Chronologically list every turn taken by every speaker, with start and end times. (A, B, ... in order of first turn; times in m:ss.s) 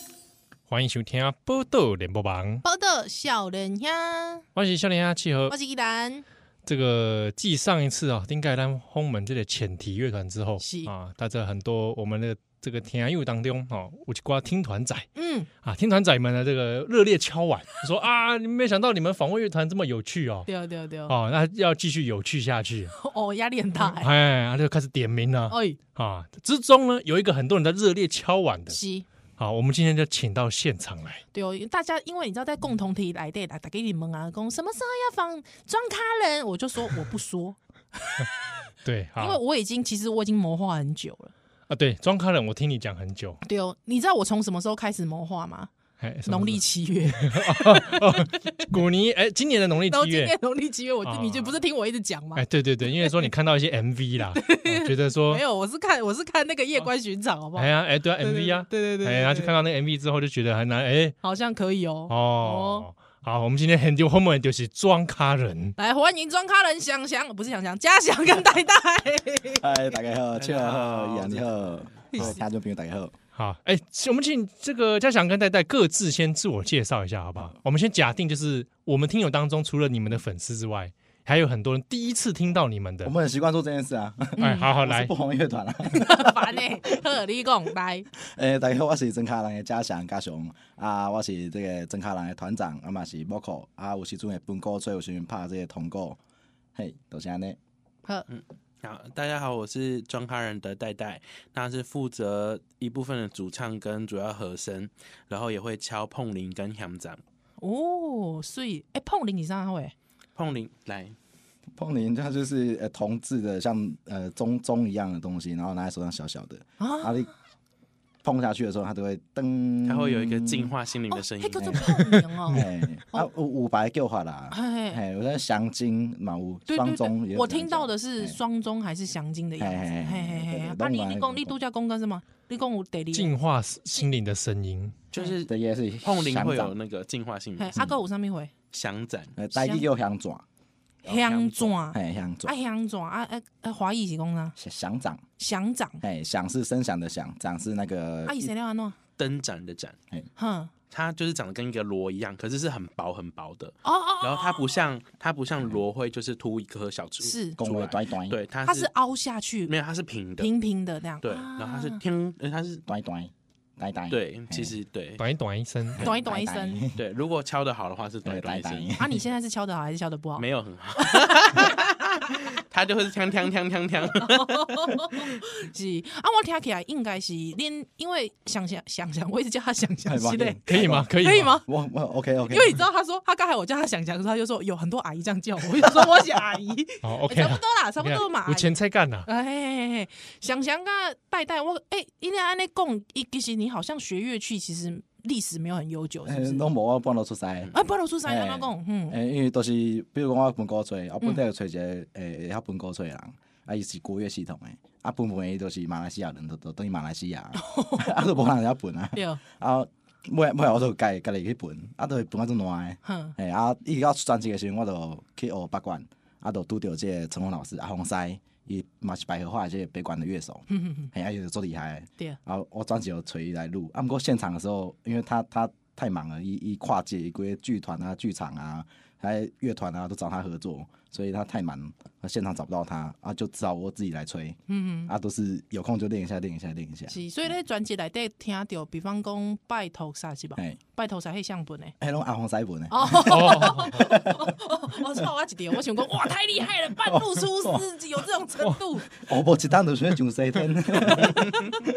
0:00.7-0:02.6 A
0:02.6-0:04.4 B
0:04.6-0:05.5 A
0:05.5-0:06.2 B
0:06.6-0:15.1 A
0:10.6-0:10.9 B
0:15.1-0:15.5 B
0:15.6-0:20.5 A
0:20.5-0:21.1 B
0:21.1-0:22.9 A
0:22.9-0:24.1 B
0:23.8-0:28.8 A
0:25.5-0:25.8 B
0:28.7-0:29.0 B
0:29.4-0:31.2 A
0:31.3-0:38.3 B
0:38.8-0:39.4 A
0:39.2-0:41.3 B
0:41.7-0:43.4 A
0:43.4-0:45.7 B
0:46.0-0:46.6 A
0:46.2-0:48.7 B
0:47.2-0:50.3 A
0:49.9-0:53.3 B
0:51.0-0:51.5 A
0:52.4-0:55.4 A
0:54.3-0:59.5 B
0:57.6-1:01.2 A
1:01.2-1:02.9 B
1:02.1-1:05.8 A
1:05.8-1:09.7 B
1:09.6-1:13.1 C
1:10.4-1:11.7 D
1:12.1-1:12.4 B
1:13.3-1:23.1 A
1:23.0-1:26.6 C
1:24.4-1:24.7 B
1:24.4-1:25.1 A
1:25.9-1:28.1 B
1:28.2-1:36.2 C
1:36.7-1:37.6 C
1:38.3-1:47.2 D
1:47.6-1:49.9 B
1:50.4-1:51.1 D
1:51.8-1:57.3 C
1:56.8-1:57.3 B
1:58.2-2:00.7 C
1:59.8-2:02.0 D
2:01.1-2:03.3 B
2:02.5-2:08.4 C
2:04.5-2:05.0 B
2:06.7-2:13.3 B
2:09.6-2:11.5 C
2:13.1-2:15.0 A
2:15.1-2:15.5 D
2:15.4-2:16.7 C
2:16.0-2:17.8 D
2:17.6-2:18.5 B
2:18.7-2:19.3 D
2:19.3-2:20.4 C
2:19.5-2:19.8 B
2:21.0-2:24.6 B
2:21.1-2:22.5 C
2:24.6-2:25.2 C
2:25.4-2:26.0 B
2:26.0-2:28.5 C
2:28.2-2:29.0 B
2:29.2-2:30.0 D
2:30.4-2:30.7 B
2:30.9-2:38.9 D
2:33.8-2:34.8 B
2:37.2-2:37.6 B
2:37.6-2:38.4 C
2:38.6-2:39.7 B
2:39.7-2:40.5 D
2:40.4-2:42.0 B
2:41.2-2:42.8 D
2:42.9-2:44.8 C
2:44.1-2:45.2 D
2:45.2-2:46.1 A
2:45.9-2:47.0 C
2:46.0-2:46.8 B
2:47.0-2:48.9 D
2:48.2-2:49.2 C
2:49.0-2:50.4 B
2:50.4-2:55.2 D
2:51.0-2:52.0 B
2:54.2-3:00.6 B
3:00.0-3:02.7 C
3:00.7-3:01.6 A
3:01.2-3:01.7 B
3:02.5-3:16.6 B
3:07.0-3:09.3 A
3:16.2-3:17.7 C
3:17.7-3:19.2 B
3:18.2-3:57.2 C
3:27.5-3:28.2 B
3:29.1-3:29.4 B
3:33.0-3:33.3 B
3:40.7-3:41.1 B
3:54.7-3:55.1 B
3:57.1-4:01.9 B
4:02.0-4:04.5 C
4:02.9-4:09.1 B
4:03.3-4:04.0 A
4:07.0-4:07.8 C
4:09.1-4:11.5 C